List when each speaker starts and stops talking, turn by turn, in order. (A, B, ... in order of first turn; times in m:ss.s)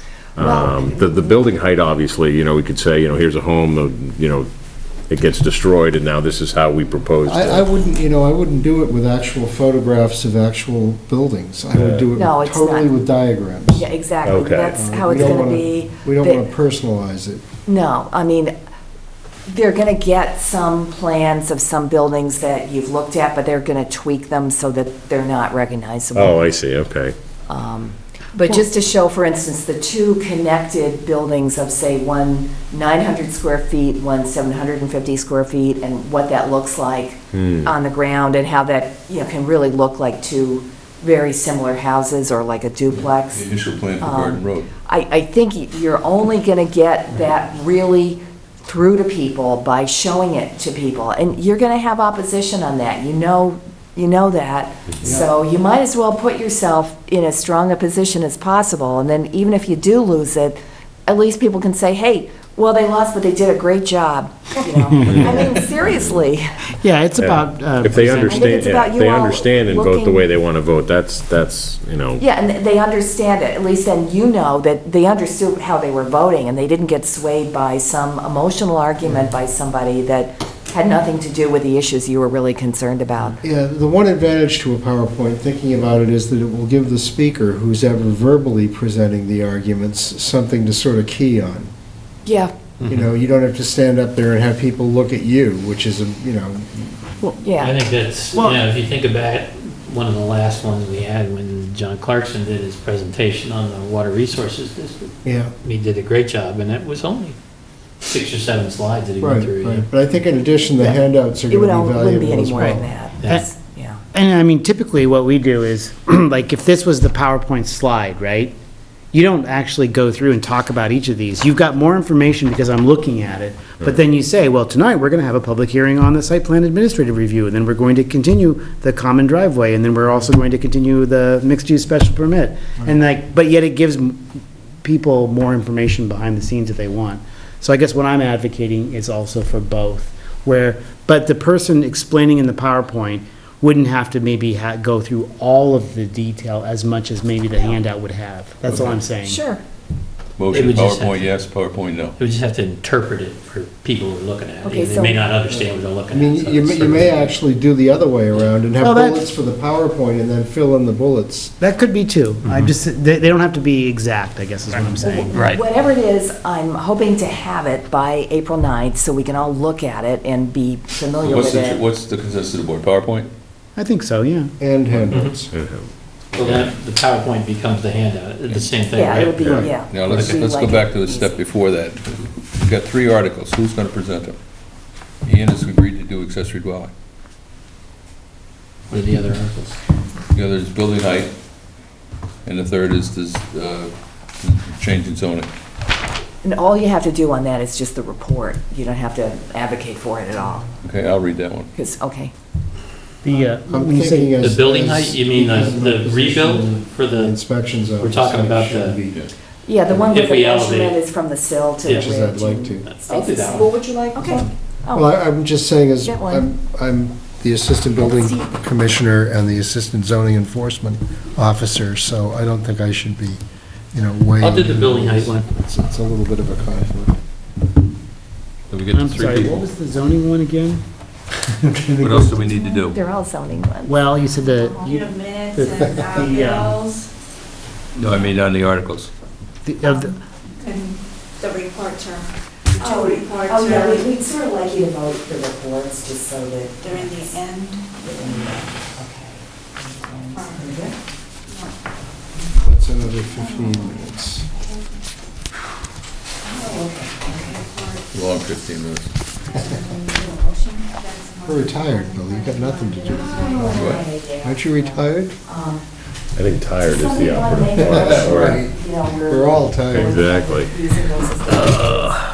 0:00.4-0:01.3 A
0:00.4-0:04.5 B
0:05.1-0:07.6 B
0:07.3-0:13.9 C
0:11.8-0:12.0 B
0:12.2-0:12.9 A
0:13.7-0:16.4 A
0:14.2-0:14.8 B
0:14.8-0:17.4 C
0:17.7-0:18.5 A
0:19.5-0:26.4 A
0:26.2-0:27.2 B
0:27.5-0:43.4 A
0:37.3-0:37.7 B
0:42.9-0:44.7 D
0:44.0-1:06.6 A
0:55.0-0:55.3 C
1:05.1-1:05.4 B
1:06.8-1:08.6 E
1:07.2-1:12.2 B
1:08.1-1:10.3 A
1:12.2-1:23.4 A
1:23.4-1:31.7 C
1:32.2-1:32.5 A
1:32.8-1:33.1 F
1:32.9-1:37.3 C
1:37.2-1:37.8 A
1:37.6-1:47.4 F
1:38.4-1:38.6 E
1:45.2-1:45.5 C
1:48.0-1:49.9 F
1:49.2-1:52.9 C
1:51.5-1:54.0 A
1:54.1-1:58.6 E
1:59.1-2:29.4 E
2:28.7-2:29.0 D
2:29.2-2:29.6 A
2:30.4-2:32.2 D
2:30.5-2:31.4 F
2:32.2-2:37.3 F
2:34.6-2:35.3 A
2:35.5-2:41.5 C
2:38.8-2:39.3 E
2:41.6-2:45.6 E
2:42.4-2:42.7 F
2:45.0-2:51.8 A
2:45.3-2:45.6 F
2:51.2-2:53.3 D
2:53.8-2:54.5 E
2:54.6-2:55.5 C
2:55.6-2:55.9 B
2:56.4-2:59.5 F
2:58.9-3:01.4 A
2:59.5-2:59.7 E
2:59.8-3:04.4 D
3:00.0-3:00.4 F
3:05.2-3:06.9 D
3:08.9-3:09.8 F
3:10.3-3:11.3 D
3:12.4-3:15.5 D
3:16.4-3:20.7 A
3:20.8-3:21.7 D
3:21.8-3:22.3 A
3:23.2-3:24.3 E
3:23.7-3:29.2 C
3:24.4-3:27.4 F
3:28.0-3:29.0 F
3:29.6-3:35.1 A
3:29.9-3:31.0 F
3:31.9-3:32.9 C
3:32.8-3:34.4 F
3:34.9-3:43.4 C
3:36.0-3:36.4 A
3:38.1-3:38.4 A
3:43.9-3:47.2 C
3:44.4-3:45.9 F
3:48.7-3:49.6 D
3:48.9-3:50.8 E
3:51.5-3:52.3 E
3:52.0-3:53.0 D
3:52.9-3:53.9 A
3:53.8-3:56.8 E
3:54.5-3:57.1 G
3:58.0-3:59.1 D
3:59.6-4:00.1 E
4:00.6-4:00.9 G
4:01.4-4:04.0 G
4:02.8-4:11.0 A
4:06.9-4:07.8 G
4:12.6-4:14.5 C
4:16.4-4:17.7 A
4:17.6-4:18.0 G
4:18.1-4:19.1 D
4:19.6-4:23.7 G
4:21.4-4:25.4 C
4:23.1-4:25.8 A
4:23.7-4:24.0 D
4:26.4-4:28.6 B
4:26.8-4:32.2 A
4:27.7-4:30.2 C
4:29.9-4:30.7 B